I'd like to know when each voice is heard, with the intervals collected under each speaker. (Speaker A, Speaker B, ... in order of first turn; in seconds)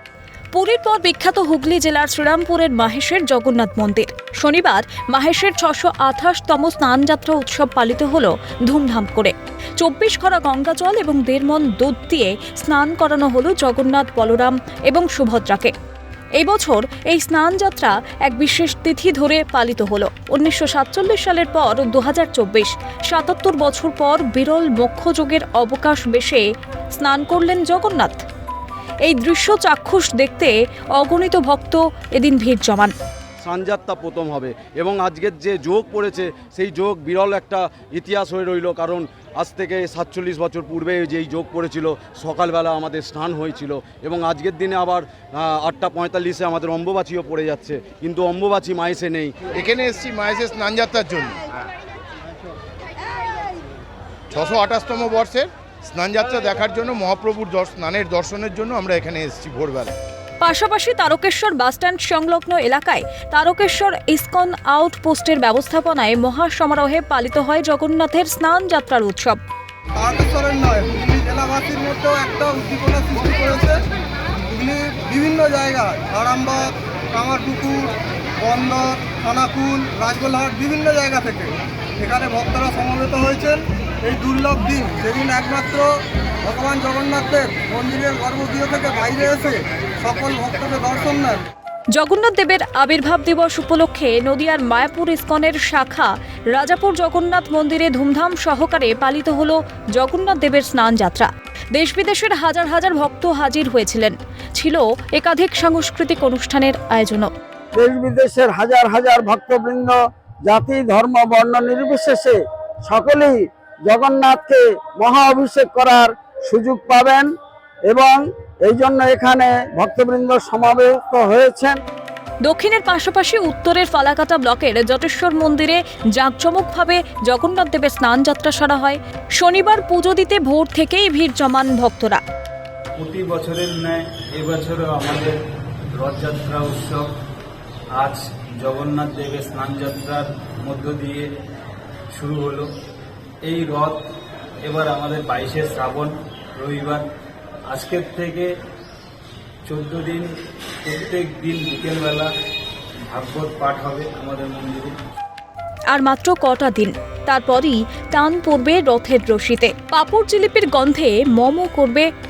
Speaker A: 0.5-15.7, 16.4-26.4, 27.0-28.2, 29.0-32.9, 60.4-69.4, 91.9-107.3, 122.4-132.2, 155.9-162.1
Speaker B: 33.4-49.5
Speaker C: 49.5-51.4, 54.3-59.9
Speaker D: 70.0-73.8, 74.4-85.9, 86.4-91.4
Speaker E: 107.8-110.0, 110.5-117.3, 117.9-121.8
Speaker F: 133.0-135.4, 136.0-137.1, 137.9-141.3, 142.1-142.7, 143.4-144.0, 144.6-147.1, 147.7-148.5, 149.7-150.3, 150.8-152.3, 153.1-154.9